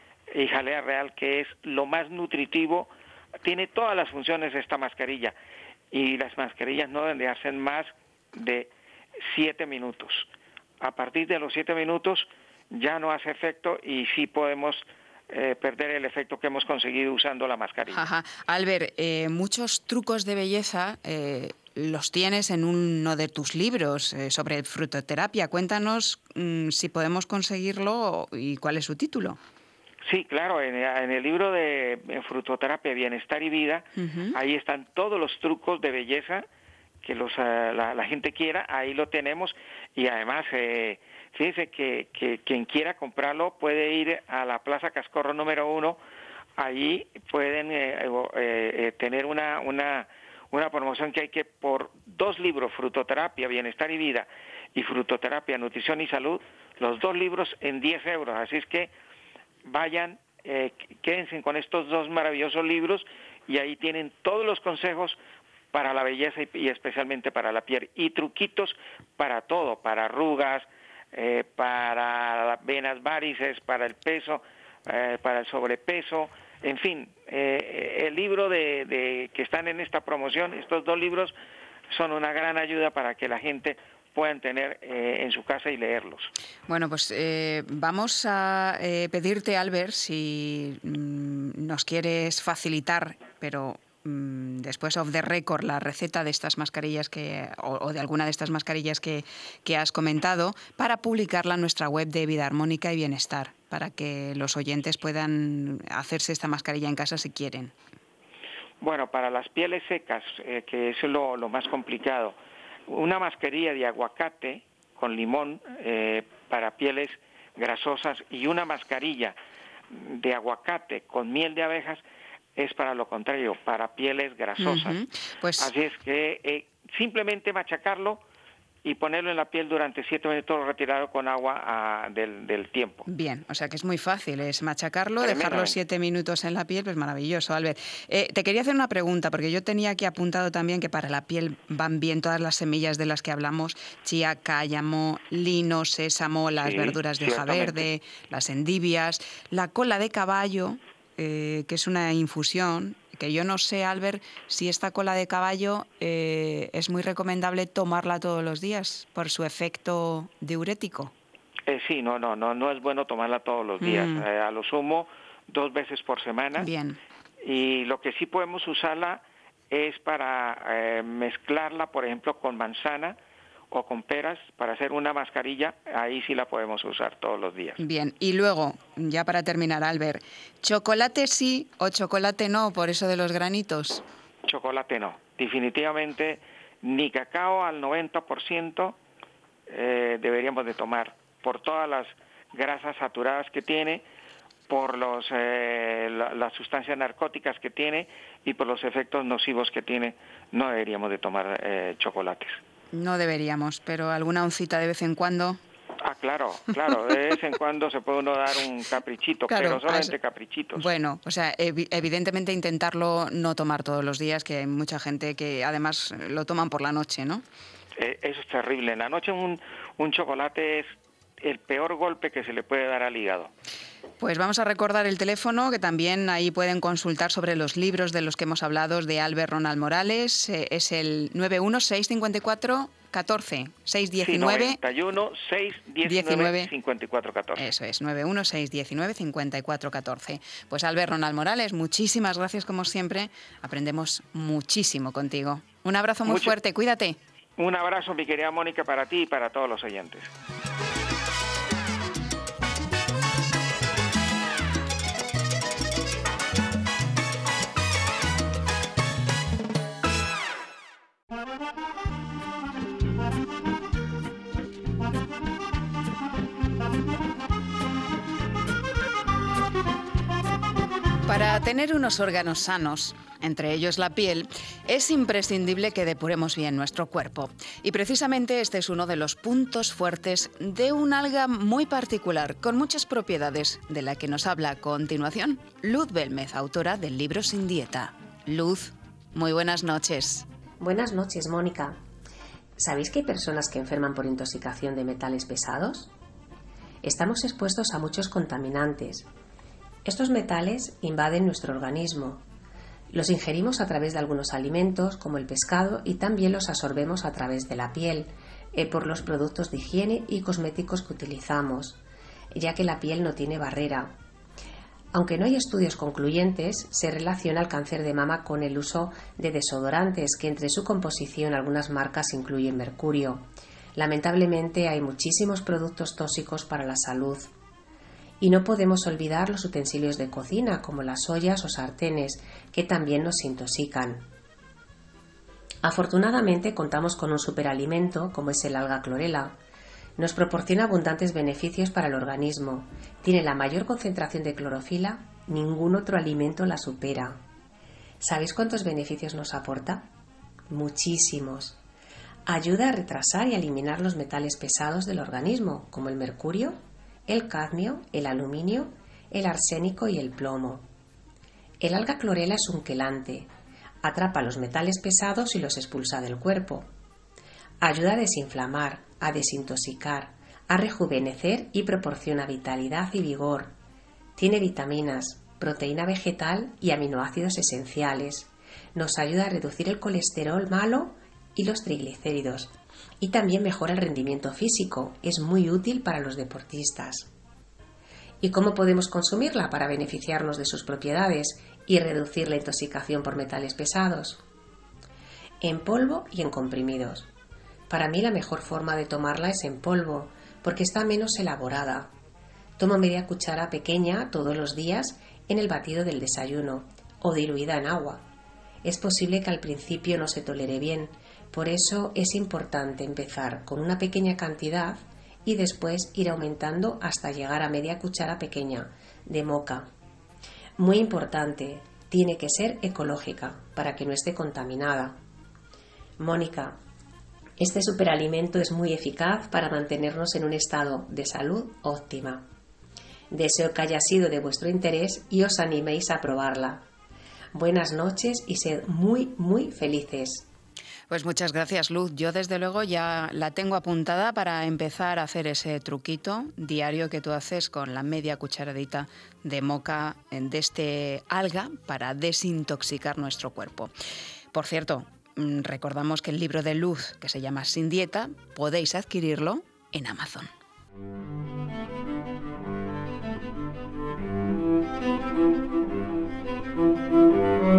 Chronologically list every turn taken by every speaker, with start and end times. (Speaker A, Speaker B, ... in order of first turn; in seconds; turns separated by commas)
Speaker A: 0.3-2.9, Speaker A: 3.4-5.3, Speaker A: 5.9-8.7, Speaker A: 9.2-10.3, Speaker A: 10.8-18.1, Speaker B: 17.9-29.4, Speaker A: 30.1-36.5, Speaker B: 34.0-34.4, Speaker A: 37.0-46.0, Speaker A: 46.6-58.9, Speaker A: 59.7-65.2, Speaker A: 65.7-81.3, Speaker A: 81.9-86.3, Speaker B: 86.7-107.7, Speaker A: 108.8-112.4, Speaker A: 112.9-119.4, Speaker A: 119.9-122.0, Speaker A: 122.6-125.0, Speaker B: 124.6-125.7, Speaker A: 125.6-128.2, Speaker A: 128.8-133.1, Speaker B: 133.1-161.1, Speaker A: 135.2-135.8, Speaker A: 146.6-147.9, Speaker A: 161.7-166.7, Speaker B: 163.8-164.3, Speaker B: 166.6-167.0, Speaker A: 167.4-173.2, Speaker A: 173.7-177.8, Speaker B: 177.8-184.0, Speaker A: 184.4-189.0, Speaker A: 189.7-194.1, Speaker A: 194.7-202.6, Speaker B: 202.9-205.6, Speaker A: 206.0-210.9, Speaker B: 209.5-210.2, Speaker B: 210.8-217.4, Speaker A: 218.0-223.5, Speaker B: 224.2-234.8, Speaker A: 234.2-237.7, Speaker B: 236.0-236.7, Speaker B: 237.6-247.2, Speaker A: 246.3-246.6, Speaker A: 247.6-250.3, Speaker B: 271.3-290.5, Speaker C: 290.8-292.0, Speaker C: 292.8-296.1, Speaker C: 297.0-299.3, Speaker C: 300.1-302.4, Speaker C: 303.1-312.0, Speaker C: 312.5-314.2, Speaker C: 315.1-327.5, Speaker C: 328.4-334.3, Speaker C: 335.8-339.6, Speaker C: 340.2-347.4, Speaker C: 348.2-350.1, Speaker C: 350.7-351.8, Speaker C: 352.5-360.9, Speaker C: 361.8-363.5, Speaker C: 364.0-366.9, Speaker C: 367.8-373.8, Speaker C: 374.4-387.3, Speaker C: 388.4-394.4, Speaker C: 395.6-397.3, Speaker C: 397.9-402.1, Speaker C: 402.8-408.3, Speaker C: 408.8-419.9, Speaker C: 420.8-425.2, Speaker C: 426.2-426.8, Speaker C: 427.6-432.5, Speaker C: 433.3-436.9, Speaker C: 437.5-440.5, Speaker B: 441.1-453.9, Speaker B: 454.5-460.5